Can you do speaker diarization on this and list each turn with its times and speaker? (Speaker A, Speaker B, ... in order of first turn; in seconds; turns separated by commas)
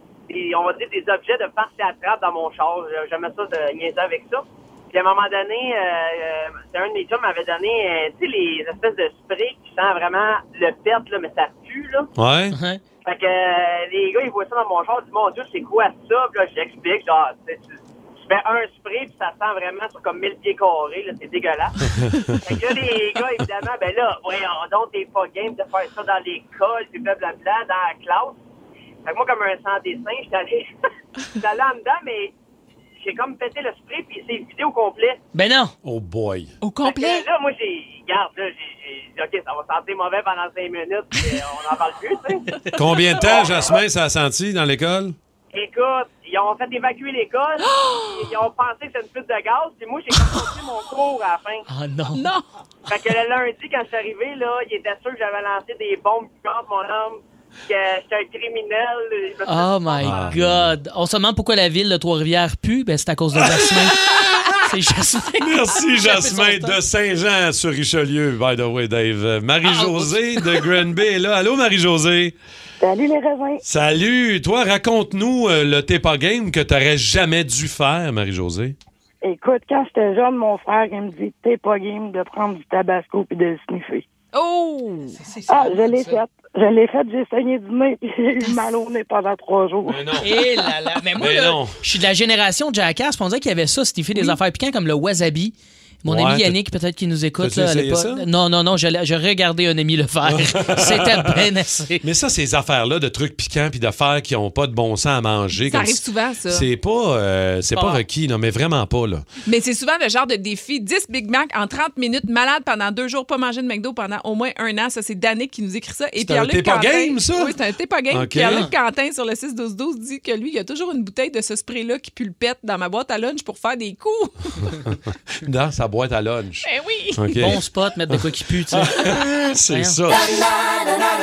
Speaker A: 0.3-12.1, Speaker B: 12.2-12.6, Speaker C: 12.5-12.8, Speaker A: 13.0-21.8, Speaker A: 22.4-28.4, Speaker A: 29.0-30.7, Speaker A: 31.3-32.3, Speaker A: 33.0-35.2, Speaker C: 35.3-35.7, Speaker B: 35.8-36.5, Speaker D: 36.6-37.2, Speaker A: 36.8-42.5, Speaker B: 42.7-45.1, Speaker A: 45.5-51.6, Speaker D: 47.6-48.3, Speaker D: 50.2-50.5, Speaker C: 51.7-52.3, Speaker D: 52.1-52.5, Speaker A: 52.9-60.1, Speaker C: 59.5-64.1, Speaker B: 60.0-60.7, Speaker B: 63.4-64.6, Speaker C: 64.6-66.8, Speaker B: 65.4-72.3, Speaker C: 69.6-70.5, Speaker E: 72.8-73.6, Speaker B: 73.6-78.7, Speaker E: 79.2-84.0, Speaker D: 84.3-85.2, Speaker C: 85.2-86.2, Speaker E: 85.5-90.0, Speaker B: 89.8-90.5, Speaker C: 90.2-102.0, Speaker B: 91.2-91.8, Speaker B: 96.1-96.5, Speaker B: 97.4-98.2, Speaker B: 100.2-101.4, Speaker B: 102.0-109.2, Speaker D: 105.7-106.7, Speaker C: 107.7-108.0, Speaker D: 109.4-124.8, Speaker B: 116.2-117.6, Speaker B: 118.1-118.7, Speaker C: 118.4-118.7, Speaker B: 124.9-130.3, Speaker D: 126.6-127.3, Speaker C: 127.4-130.0